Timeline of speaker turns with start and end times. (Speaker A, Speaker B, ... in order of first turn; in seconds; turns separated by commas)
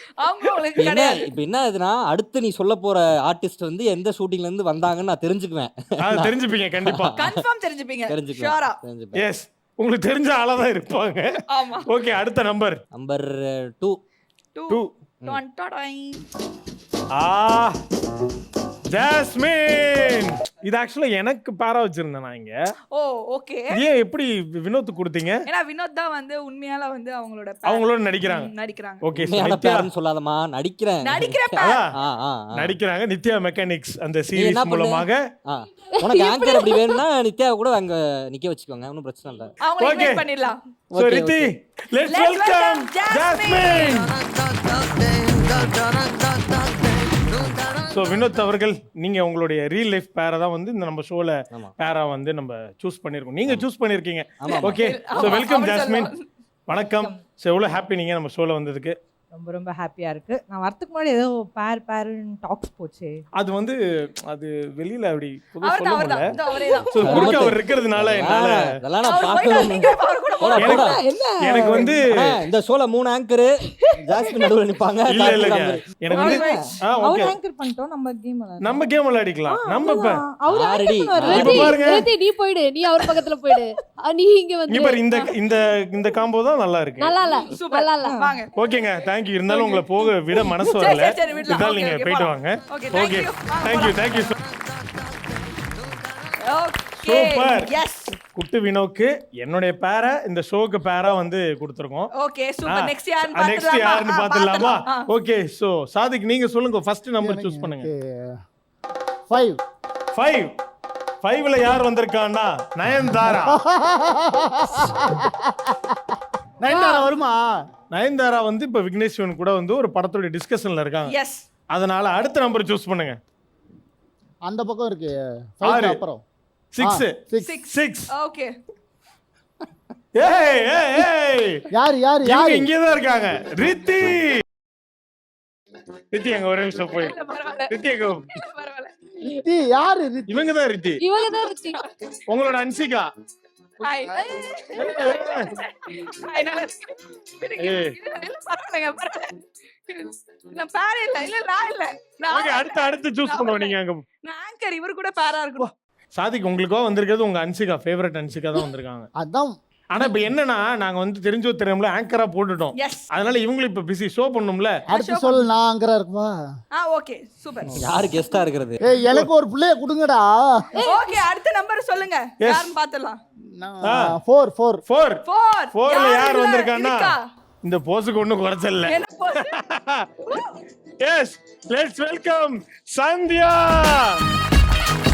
Speaker A: 0.2-1.3, Speaker B: 0.8-7.3, Speaker C: 6.0-7.2, Speaker A: 7.1-8.8, Speaker B: 8.1-9.2, Speaker C: 9.2-12.8, Speaker A: 11.5-11.9, Speaker B: 12.9-14.0, Speaker A: 14.5-16.2, Speaker C: 17.1-17.8, Speaker C: 18.9-22.6, Speaker A: 22.9-23.7, Speaker C: 23.7-25.4, Speaker A: 25.5-29.0, Speaker C: 27.6-28.5, Speaker C: 29.0-29.9, Speaker B: 29.1-32.8, Speaker A: 31.0-31.8, Speaker C: 31.6-31.9, Speaker C: 32.5-35.2, Speaker B: 34.3-39.5, Speaker D: 36.0-37.0, Speaker A: 39.6-40.6, Speaker C: 39.8-40.3, Speaker B: 40.9-41.5, Speaker C: 40.9-44.1, Speaker A: 42.1-44.0, Speaker B: 44.9-46.1, Speaker C: 47.9-56.1, Speaker B: 54.4-55.4, Speaker A: 54.4-56.2, Speaker C: 56.7-59.0, Speaker E: 59.3-63.2, Speaker C: 63.4-66.2, Speaker A: 65.6-67.5, Speaker E: 66.7-67.1, Speaker C: 66.9-68.7, Speaker B: 67.0-71.0, Speaker A: 69.0-70.9, Speaker C: 70.6-70.8, Speaker E: 70.7-72.0, Speaker C: 71.4-72.3, Speaker B: 71.6-76.0, Speaker C: 75.1-77.3, Speaker E: 76.1-78.8, Speaker A: 76.1-76.6, Speaker C: 78.6-80.2, Speaker E: 79.5-81.8, Speaker B: 80.5-81.7, Speaker C: 81.3-82.1, Speaker D: 81.4-85.0, Speaker C: 84.7-87.1, Speaker D: 87.0-88.2, Speaker A: 87.5-88.5, Speaker E: 88.0-88.3, Speaker C: 88.5-94.4, Speaker A: 90.6-94.2, Speaker A: 96.4-98.1, Speaker C: 97.0-97.7, Speaker C: 98.2-102.1, Speaker A: 102.1-105.0, Speaker C: 102.6-107.9, Speaker F: 107.2-108.4, Speaker F: 109.3-109.6, Speaker C: 110.1-110.5, Speaker C: 111.2-113.6, Speaker F: 113.3-117.6, Speaker D: 116.7-117.0, Speaker C: 117.9-121.1, Speaker A: 121.1-121.4, Speaker C: 121.7-123.2, Speaker F: 124.5-126.2, Speaker C: 125.7-126.0, Speaker C: 126.7-128.1, Speaker F: 126.8-127.5, Speaker A: 127.4-128.5, Speaker C: 130.1-131.6, Speaker F: 131.7-132.7, Speaker C: 132.2-134.4, Speaker C: 136.1-137.2, Speaker A: 137.0-137.7, Speaker C: 137.7-138.2, Speaker A: 138.3-138.9, Speaker F: 139.2-140.4, Speaker C: 140.3-141.0, Speaker D: 141.0-141.8, Speaker C: 142.3-143.1, Speaker A: 143.8-152.7, Speaker C: 144.7-145.5, Speaker C: 147.6-147.9, Speaker C: 152.3-154.0, Speaker A: 153.2-155.7, Speaker C: 156.1-159.1, Speaker F: 159.2-159.5, Speaker C: 159.9-164.8, Speaker A: 162.8-163.1, Speaker F: 164.9-166.3, Speaker A: 164.9-165.4, Speaker A: 166.7-167.8, Speaker B: 167.8-168.8, Speaker F: 168.8-170.6, Speaker D: 170.8-171.2, Speaker A: 170.8-173.2, Speaker C: 172.4-172.7, Speaker F: 173.5-174.8, Speaker C: 173.8-174.1, Speaker C: 174.9-175.2, Speaker A: 175.2-177.2, Speaker C: 175.7-180.1, Speaker A: 178.9-179.5, Speaker A: 180.2-180.6, Speaker C: 181.0-184.2